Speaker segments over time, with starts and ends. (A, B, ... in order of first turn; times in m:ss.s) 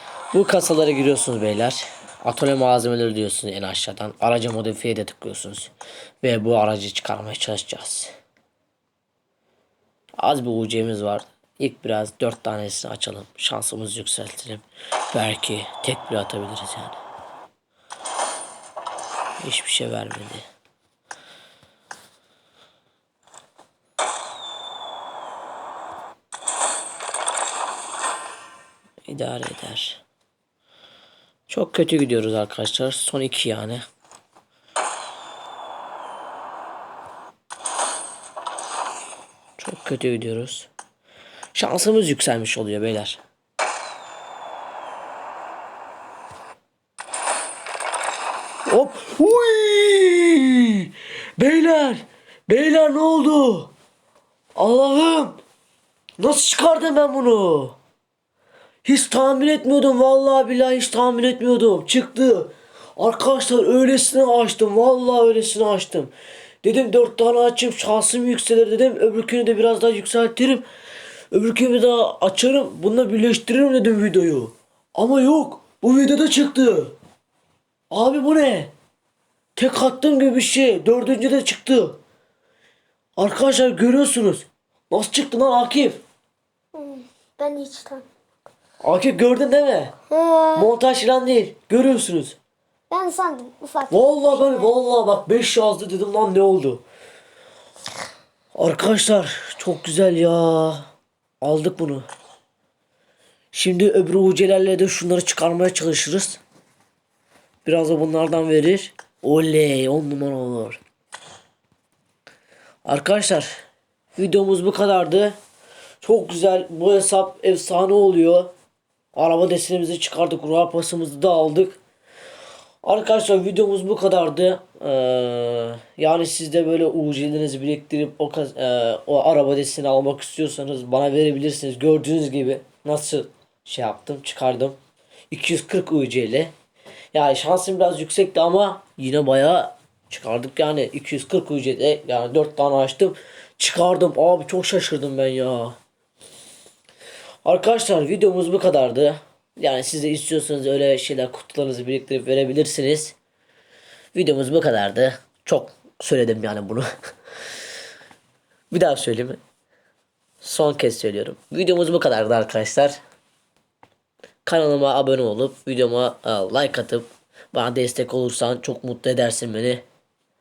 0:00.3-0:08.1 A
0:10.2-0:17.0 A
0:19.4-0:20.4 A
0:29.1-0:30.0 A
0:31.5-0:33.8 A
0:39.6-0:40.7 A
0:41.5-0:43.2 A
0:48.7-0:53.7 A
0:54.6-0:55.4 A
0:56.2-0:57.8 A
0:58.8-1:06.1 A
1:06.6-1:10.6 A
1:11.3-1:17.0 A
1:17.9-1:18.7 A
1:19.6-1:22.0 A
1:23.2-1:26.0 A
1:26.8-1:28.1 B
1:28.8-1:30.0 A
1:30.1-1:30.7 B
1:30.6-1:32.4 A
1:32.9-1:34.7 B
1:33.9-1:36.8 A
1:38.6-1:40.9 A
1:41.4-1:42.0 A
1:43.5-1:46.4 A
1:47.6-1:50.8 A
1:52.8-1:53.5 A
1:54.2-1:55.4 A
1:56.0-1:58.5 A
1:59.2-2:01.8 A
2:02.8-2:14.8 A
2:15.3-2:16.5 A
2:17.1-2:25.8 A
2:27.4-2:33.2 A
2:34.1-2:36.9 A
2:38.7-2:39.4 A
2:40.4-2:43.0 A
2:44.4-2:49.8 A